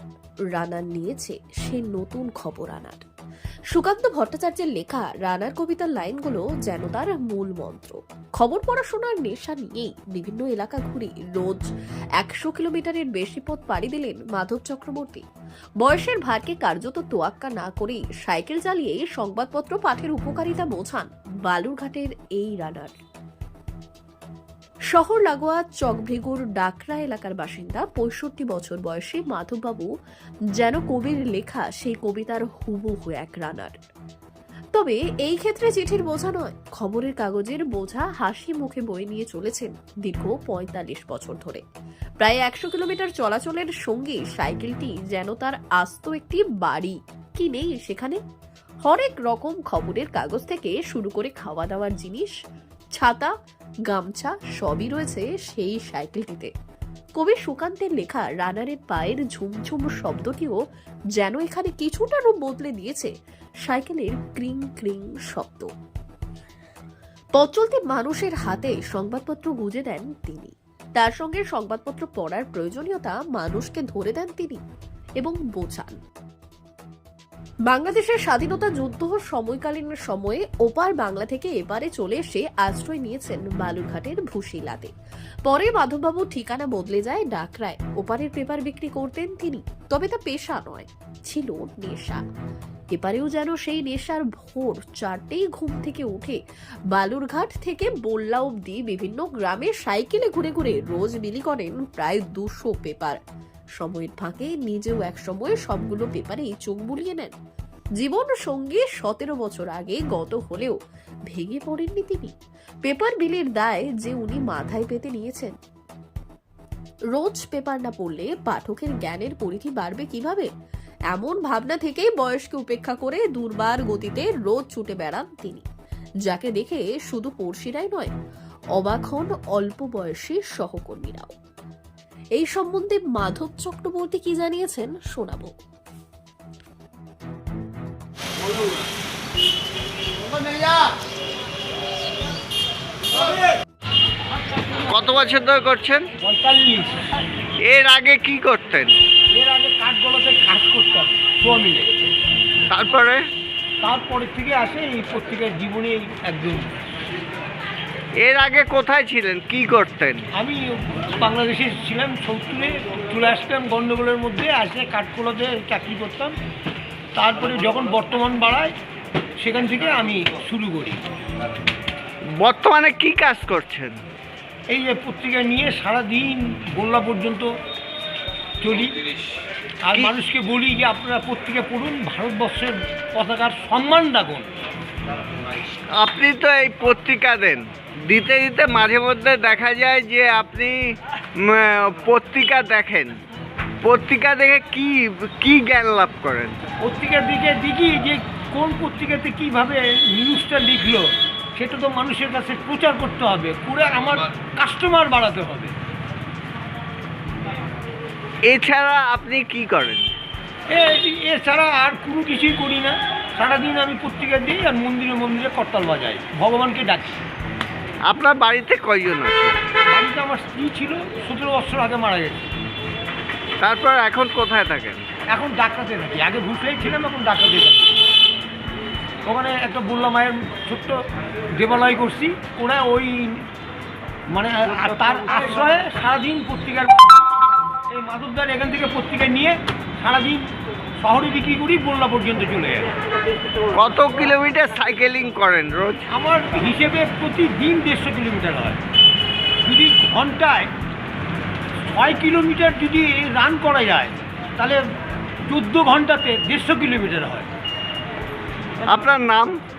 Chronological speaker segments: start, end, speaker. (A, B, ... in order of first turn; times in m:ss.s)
0:00.5-0:03.0 A
0:03.7-0:11.6 A
0:12.2-0:15.2 A
0:15.8-0:23.0 A
0:24.9-0:29.9 A
0:30.6-0:33.7 A
0:34.7-0:41.6 A
0:42.2-0:48.2 A
0:48.8-0:52.3 A
0:53.0-0:53.3 A
0:53.9-0:56.5 A
0:57.2-1:00.6 A
1:01.2-1:03.1 A
1:03.7-1:05.7 A
1:07.4-1:14.6 A
1:15.2-1:16.0 A
1:17.7-1:24.9 A
1:25.4-1:32.2 A
1:32.9-1:36.4 A
1:36.9-1:43.2 A
1:43.8-1:47.3 A
1:48.0-1:50.8 A
1:51.3-1:55.6 A
1:57.2-2:00.5 A
2:01.1-2:05.6 A
2:06.3-2:08.1 A
2:08.8-2:11.3 A
2:12.4-2:15.5 A
2:24.9-2:26.1 B
2:26.2-2:27.0 C
2:27.6-2:29.0 B
2:29.3-2:31.9 C
2:32.7-2:33.2 B
2:33.8-2:36.7 C
2:38.2-2:40.2 B
2:40.4-2:46.3 C
2:47.1-2:48.7 C
2:49.4-2:51.0 C
2:52.4-2:54.0 B
2:54.7-2:57.5 C
2:58.6-2:59.0 C
2:59.8-3:04.5 C
3:05.9-3:13.2 B
3:13.8-3:16.6 B
3:16.8-3:25.7 C
3:28.4-3:30.0 B
3:30.7-3:37.2 C
3:38.0-3:39.6 B
3:39.9-3:42.5 C
3:43.6-3:45.0 B
3:45.3-3:48.0 C
3:49.2-3:51.0 C
3:51.6-3:53.4 C
3:54.3-3:57.2 C
3:57.9-4:00.5 C
4:01.0-4:02.9 C
4:03.7-4:06.0 B
4:06.1-4:08.8 C
4:09.6-4:10.7 C
4:11.8-4:14.8 C
4:15.5-4:17.5 C
4:18.9-4:19.6 B